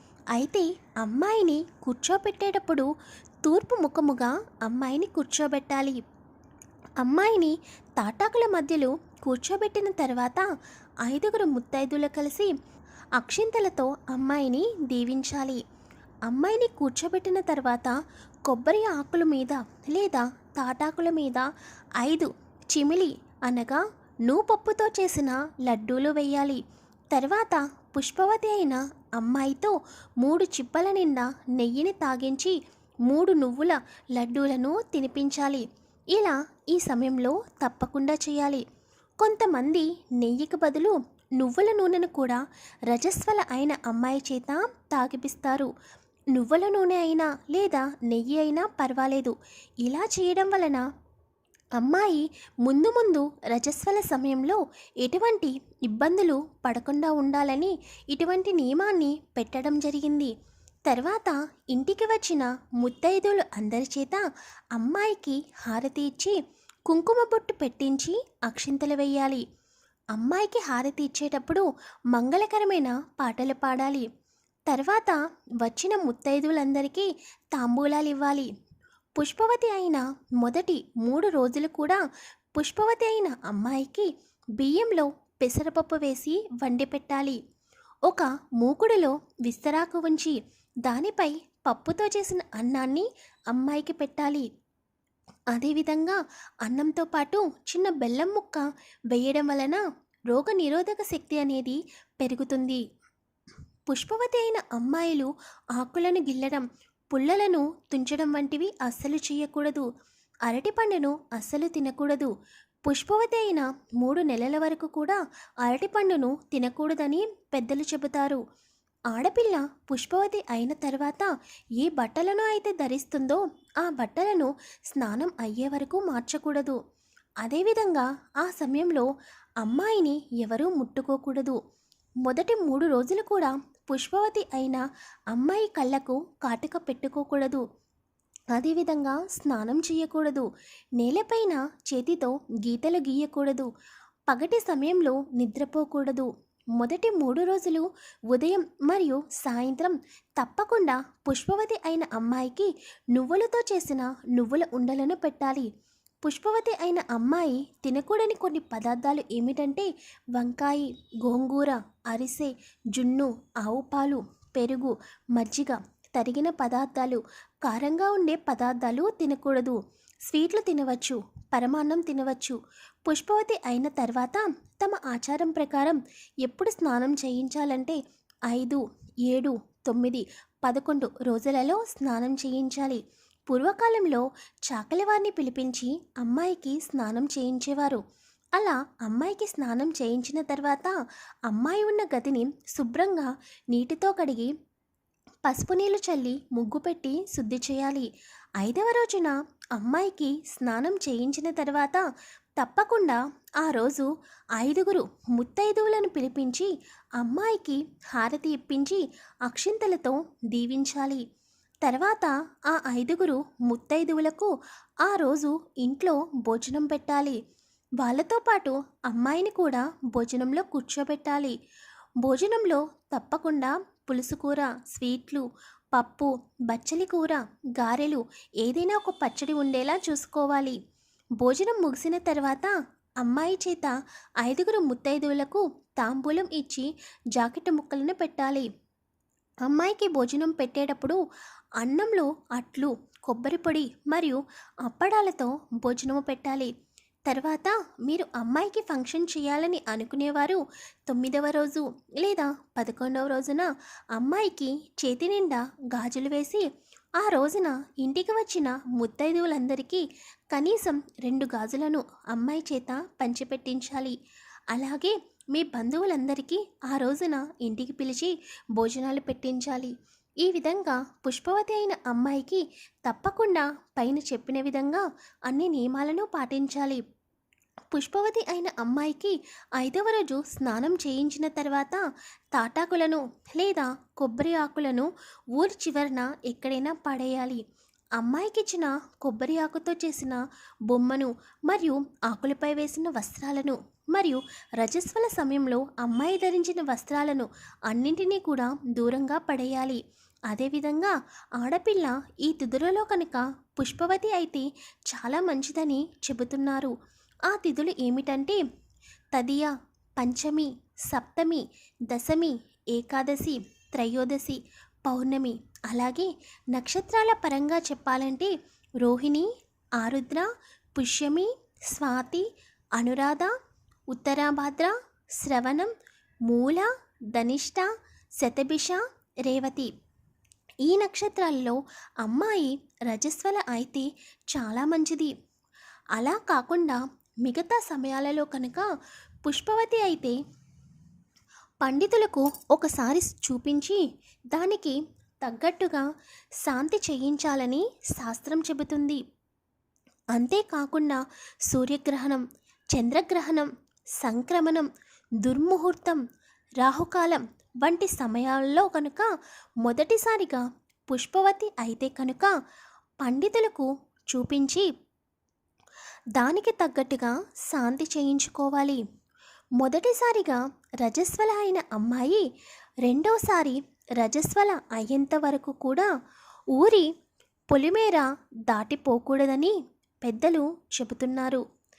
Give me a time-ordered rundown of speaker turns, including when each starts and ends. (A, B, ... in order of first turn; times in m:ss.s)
0:00.3-0:02.9 A
0:03.4-0:06.0 A
0:07.0-0:10.5 A
0:11.0-0:12.5 A
0:13.2-0:15.6 A
0:16.3-0:17.9 A
0:18.5-0:21.5 A
0:22.0-0:26.6 A
0:27.1-0:32.6 A
0:33.1-0:38.6 A
0:39.2-0:45.7 A
0:46.3-0:50.8 A
0:51.8-1:00.3 A
1:00.9-1:09.4 A
1:10.1-1:14.1 A
1:14.7-1:18.5 A
1:19.2-1:22.0 A
1:22.6-1:27.4 A
1:28.1-1:34.5 A
1:35.5-1:42.8 A
1:43.9-1:49.8 A
1:50.4-1:52.3 A
1:52.9-1:58.4 A
1:59.1-2:06.8 A
2:07.4-2:09.1 A
2:09.6-2:11.6 A
2:12.2-2:17.6 A
2:18.5-2:20.5 A
2:21.0-2:23.7 A
2:24.3-2:35.7 A
2:36.2-3:08.0 A
3:08.6-3:10.9 A
3:11.5-3:14.5 A
3:15.4-3:22.0 A
3:22.6-3:31.2 A
3:31.8-3:34.5 A
3:35.0-3:37.4 A
3:38.0-3:41.5 A
3:42.2-3:50.8 A
3:51.4-3:58.7 A
3:59.6-4:01.2 A
4:01.8-4:06.7 A
4:07.3-4:16.6 A
4:17.2-4:24.2 A
4:24.7-4:37.0 A
4:37.9-4:42.0 A
4:42.5-4:47.6 A
4:48.2-5:06.9 A
5:07.5-5:08.6 A
5:09.3-5:23.5 A
5:24.1-5:25.9 A
5:26.5-5:29.9 A
5:30.8-5:35.3 A
5:36.1-5:38.9 A
5:39.4-5:40.4 A
5:41.8-5:44.0 A
5:44.5-5:46.1 A
5:46.6-5:49.2 A
5:50.3-5:53.7 A
5:54.2-5:54.9 A
5:55.4-5:56.2 A
5:56.8-5:59.3 A
5:59.8-6:02.5 A
6:03.2-6:04.9 A
6:06.4-6:09.0 A
6:09.8-6:12.4 A
6:13.0-6:16.1 A
6:16.7-6:17.1 A
6:17.7-6:21.6 A